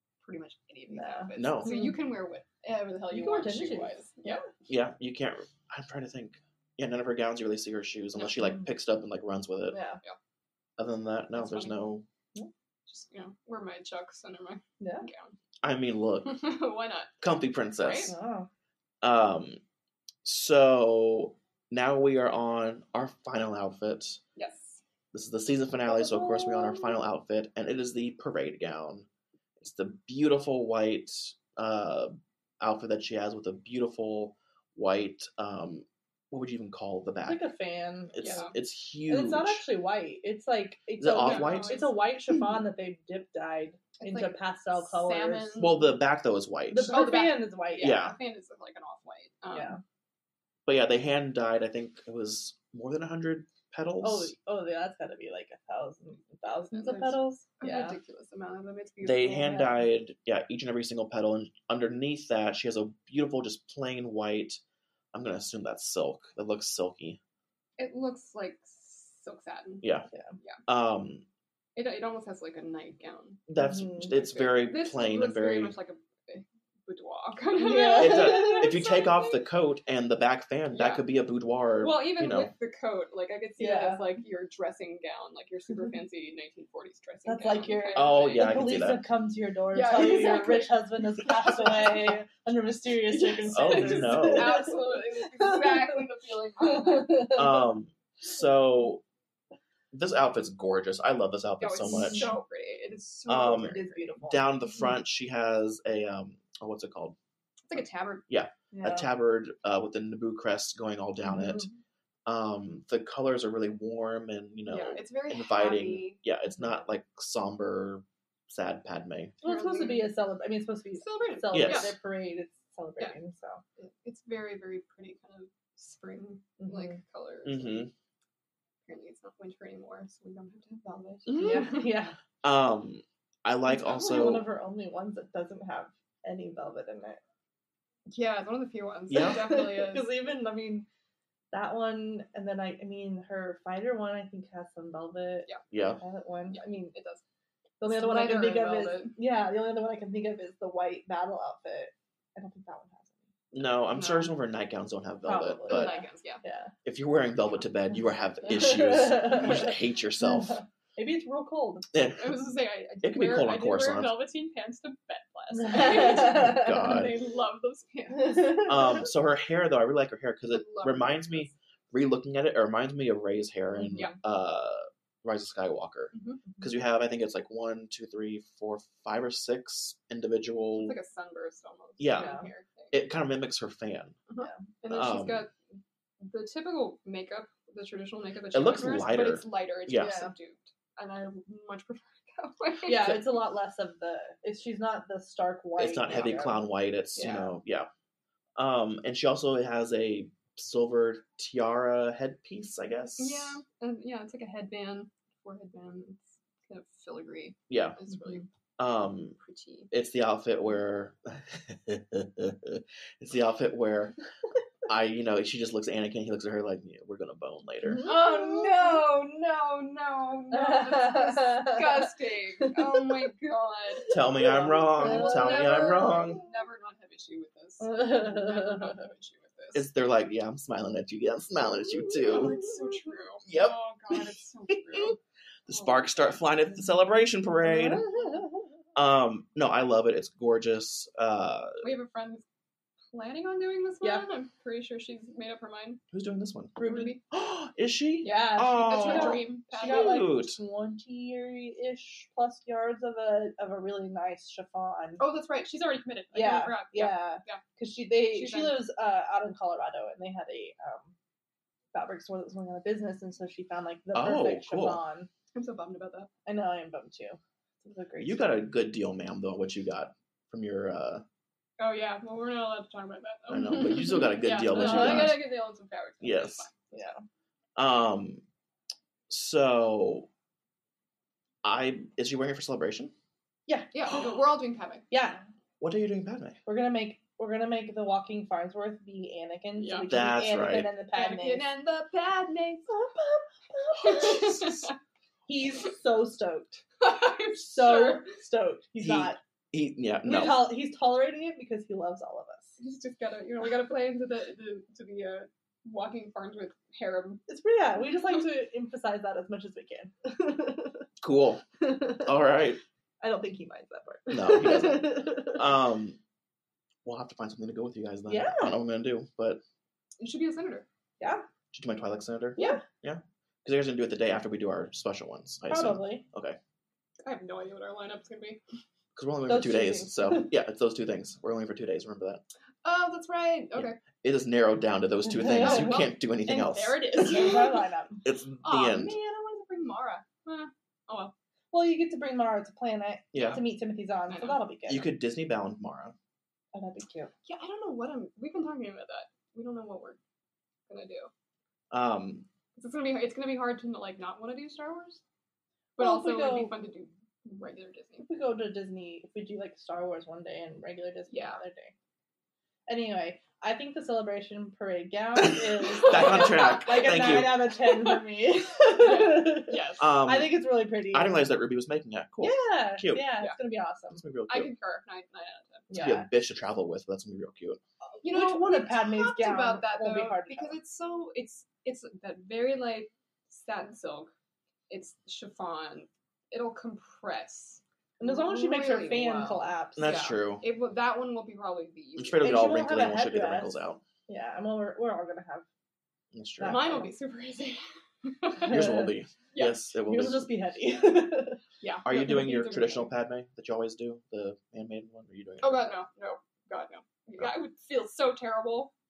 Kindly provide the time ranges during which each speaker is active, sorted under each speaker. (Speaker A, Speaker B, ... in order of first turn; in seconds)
Speaker A: 0.2-4.4, 11.3-11.9, 12.9-15.3, 16.2-17.2, 17.8-18.1, 24.4-24.8, 38.2-38.5, 41.2-41.9, 44.0-45.9, 46.9-49.8, 56.7-59.6, 67.8-69.8, 71.8-73.4, 74.1-79.4, 80.7-81.0, 81.8-88.7, 89.7-90.8, 93.1-97.3, 101.6-104.1, 107.7-108.2, 114.7-116.2, 119.4-120.1, 121.0-121.9, 123.8-127.9, 128.8-131.9, 133.9-134.4, 138.1-140.1, 146.5-147.2, 147.8-149.1, 153.9-154.3, 155.7-156.4, 162.2-168.7, 170.5-171.5, 176.1-176.4, 180.8-183.0, 184.3-193.1, 197.2-197.5, 203.2-208.5, 209.4-209.9, 218.0-224.1, 224.9-229.9, 232.2-235.2, 235.7-236.4, 241.8-242.4, 243.1-246.0, 246.8-247.2, 248.3-250.3, 255.2-257.6, 258.3-258.8, 265.5-266.3, 271.8-276.7, 283.9-285.0, 289.8-290.1, 291.1-292.9, 294.1-294.9, 297.0-298.3, 302.8-307.4, 320.2-320.9, 327.2-328.6, 332.8-334.0, 335.6-337.8, 338.6-341.3, 344.3-344.6, 347.4-350.2, 350.9-351.3, 352.7-355.2, 356.0-358.3, 361.3-361.6, 366.1-368.2, 368.8-370.1, 374.5-376.1, 378.2-384.3, 384.9-392.6, 396.6-398.7, 399.5-399.8, 401.8-403.1, 405.6-408.9
Speaker B: 0.9-1.9, 3.1-4.5, 9.7-10.0, 14.8-15.1, 18.1-18.5, 25.9-26.9, 37.2-38.5, 39.1-45.7, 46.7-48.1, 49.5-49.8, 54.0-58.0, 59.4-59.8, 73.6-74.1, 77.6-78.8, 83.6-84.0, 87.2-94.8, 96.6-97.4, 101.9-102.3, 103.6-104.8, 108.7-109.1, 111.3-111.7, 119.4-123.6, 126.6-127.0, 131.3-132.2, 133.7-137.2, 139.1-140.9, 141.5-146.9, 147.8-153.2, 155.2-156.7, 158.5-161.9, 165.5-166.8, 168.2-168.7, 173.8-174.1, 182.2-182.5, 190.0-190.3, 192.8-197.4, 217.8-218.9, 220.5-222.1, 224.1-226.4, 227.8-228.9, 237.6-238.5, 246.8-247.2, 248.2-255.2, 256.3-261.1, 261.9-265.3, 266.4-268.6, 274.7-275.4, 276.9-277.2, 283.7-283.9, 285.1-285.4, 286.6-291.7, 292.9-294.7, 295.5-296.8, 297.6-299.4, 300.2-302.8, 307.5-311.1, 311.8-312.3, 313.2-315.6, 318.3-318.7, 321.2-321.4, 322.6-322.8, 325.7-326.2, 329.5-330.5, 335.3-338.2, 341.7-345.1, 346.7-347.3, 356.0-356.8, 358.2-361.9, 362.9-371.4, 372.4-374.2, 375.9-376.3, 378.2-380.8, 388.2-390.2, 392.4-395.6, 396.6-397.1, 398.6-399.1, 400.1-401.6
Speaker C: 1.3-1.8, 4.7-9.8, 10.8-12.0, 15.6-16.4, 17.2-18.1, 19.0-19.6, 20.2-24.2, 25.1-29.1, 29.6-37.5, 38.1-39.6, 41.0-41.9, 45.6-47.0, 47.8-48.1, 50.6-54.3, 59.0-64.6, 65.1-67.2, 69.8-70.1, 70.7-71.2, 73.5-75.7, 77.9-82.5, 87.9-89.0, 93.5-94.7, 97.3-99.0, 99.9-102.3, 103.3-107.2, 108.3-111.7, 112.2-119.3, 121.5-121.9, 127.4-127.9, 131.3-131.6, 132.4-134.5, 139.1-139.4, 145.7-146.0, 153.5-156.0, 156.8-160.6, 161.9-162.4, 163.0-164.2, 165.8-167.1, 168.6-180.9, 182.0-182.4, 182.9-184.2, 184.9-185.4, 188.5-190.2, 195.8-197.9, 198.6-203.6, 207.7-208.0, 208.8-209.4, 209.9-214.2, 214.9-218.1, 224.1-226.4, 229.7-232.7, 233.4-233.8, 235.7-238.1, 238.9-241.8, 246.1-250.6, 264.1-265.0, 268.2-271.2, 273.5-275.5, 276.2-276.6, 277.8-278.4, 279.3-280.3, 281.6-283.1, 285.8-286.6, 290.1-290.9, 294.0-294.9, 299.0-300.7, 311.2-311.6, 312.2-312.8, 314.3-316.2, 317.0-319.6, 321.7-326.6, 329.1-332.4, 333.8-337.3, 338.2-339.1, 343.3-343.6, 344.9-346.1, 351.9-352.5, 365.5-367.7, 370.0-373.3, 374.1-374.7, 375.9-377.8, 389.9-390.6, 392.2-394.0, 396.3-396.9, 398.6-400.5, 402.0-406.0